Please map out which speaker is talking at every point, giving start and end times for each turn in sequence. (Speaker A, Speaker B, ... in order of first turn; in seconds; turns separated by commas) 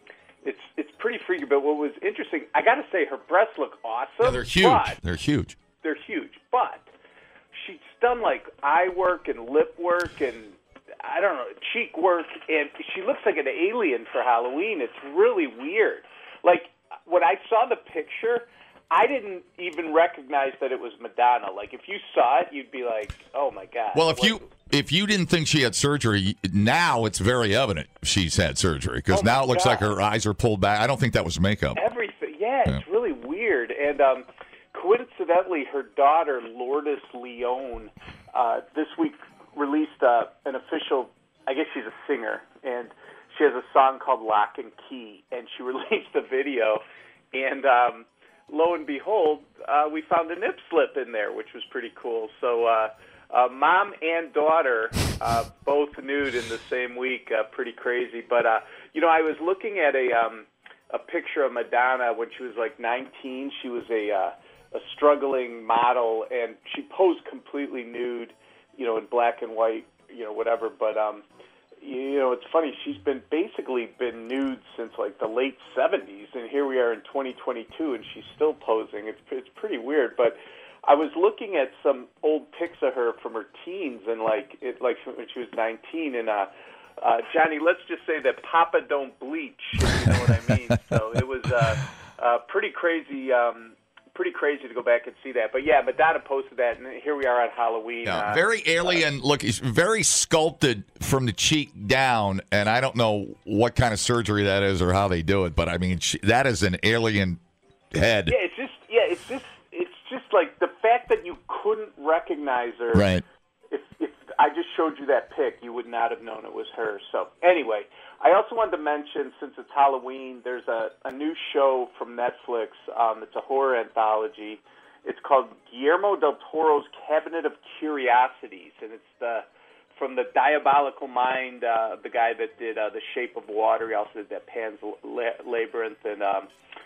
Speaker A: 0.4-5.0, Speaker B: 4.2-5.6, Speaker A: 5.8-6.9, Speaker A: 7.5-24.4, Speaker B: 23.9-31.8, Speaker A: 29.1-29.9, Speaker A: 31.7-46.8, Speaker A: 47.3-71.2, Speaker A: 71.8-99.0, Speaker B: 98.0-107.4, Speaker B: 107.9-108.4, Speaker A: 108.3-113.1, Speaker B: 112.9-113.2, Speaker A: 113.7-136.5